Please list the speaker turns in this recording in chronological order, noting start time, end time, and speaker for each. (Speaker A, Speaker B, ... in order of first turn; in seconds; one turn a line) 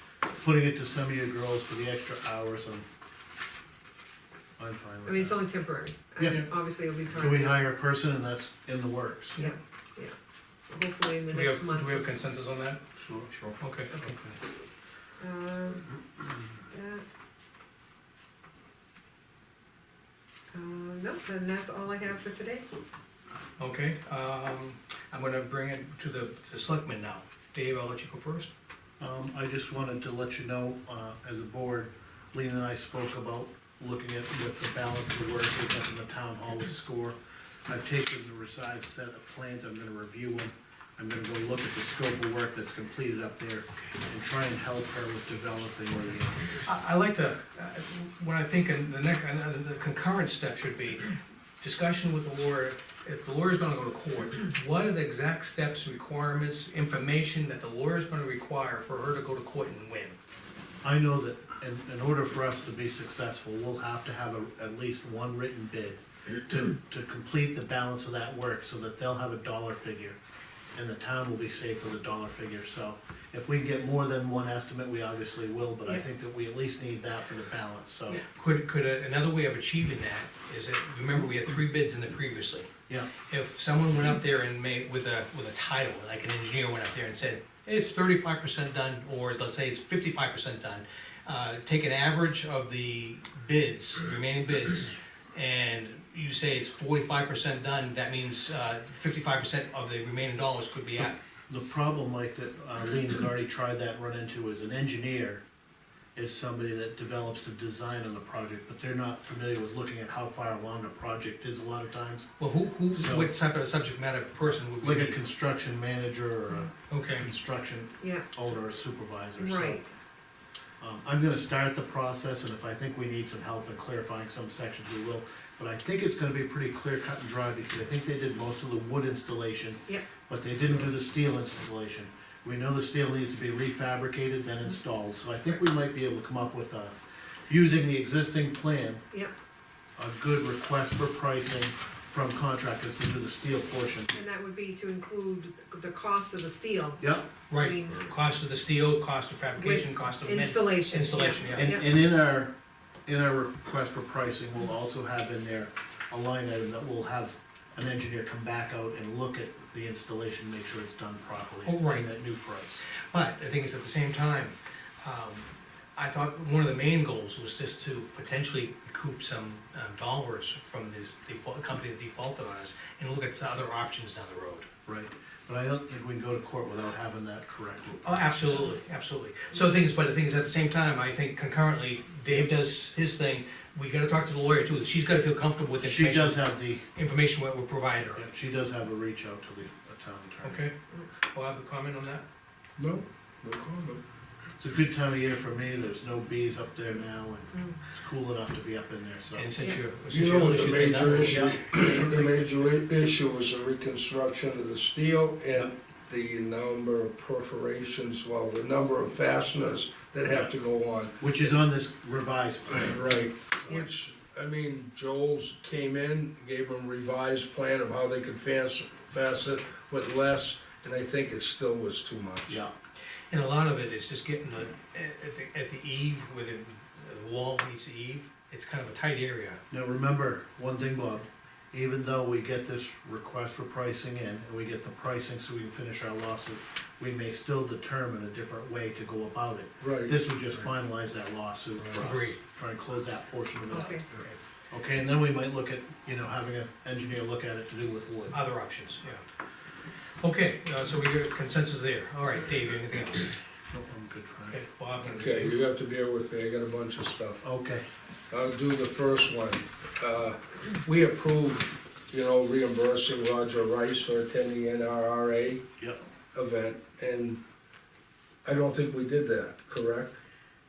Speaker A: 0.3-2.8
Speaker A: 4.6-5.4
Speaker B: 5.0-7.6
Speaker A: 6.2-6.5
Speaker A: 7.1-9.4
Speaker B: 9.3-12.1
Speaker C: 11.3-12.8
Speaker A: 13.0-13.3
Speaker C: 13.5-14.1
Speaker A: 14.0-14.3
Speaker B: 15.2-15.9
Speaker B: 16.7-17.0
Speaker B: 20.5-22.6
Speaker C: 23.6-28.5
Speaker A: 29.0-37.1
Speaker A: 37.7-46.6
Speaker C: 46.6-60.2
Speaker A: 60.8-70.2
Speaker A: 70.7-78.2
Speaker C: 78.3-82.7
Speaker C: 83.3-101.2
Speaker A: 101.0-105.4
Speaker A: 106.1-112.3
Speaker C: 112.4-115.2
Speaker A: 112.9-113.3
Speaker A: 114.8-119.8
Speaker C: 116.9-117.3
Speaker B: 118.0-118.2
Speaker B: 119.4-119.9
Speaker A: 120.8-136.9
Speaker A: 137.5-139.0
Speaker A: 140.0-144.1
Speaker B: 144.1-148.1
Speaker A: 147.0-147.3
Speaker C: 147.5-151.8
Speaker B: 149.6-151.9
Speaker A: 151.5-152.5
Speaker A: 153.1-162.8
Speaker C: 161.6-162.1
Speaker C: 163.1-174.7
Speaker A: 174.8-178.3
Speaker C: 178.0-188.2
Speaker A: 185.8-186.8
Speaker A: 188.1-190.7
Speaker C: 190.4-190.7
Speaker C: 191.3-192.2
Speaker D: 192.8-194.0
Speaker A: 194.6-199.5
Speaker C: 199.3-201.5
Speaker D: 200.1-211.2
Speaker A: 201.1-202.4
Speaker A: 211.2-213.1
Speaker D: 212.8-222.6
Speaker C: 223.3-229.6
Speaker A: 229.7-244.0
Speaker D: 239.8-240.1
Speaker C: 242.0-242.4
Speaker B: 243.7-244.1
Speaker A: 244.7-248.3
Speaker C: 248.3-249.2
Speaker C: 250.2-253.3
Speaker A: 253.7-254.6
Speaker C: 254.5-255.6
Speaker D: 255.1-257.4
Speaker A: 257.4-257.8
Speaker D: 258.3-265.6
Speaker D: 266.3-267.4
Speaker D: 268.4-270.2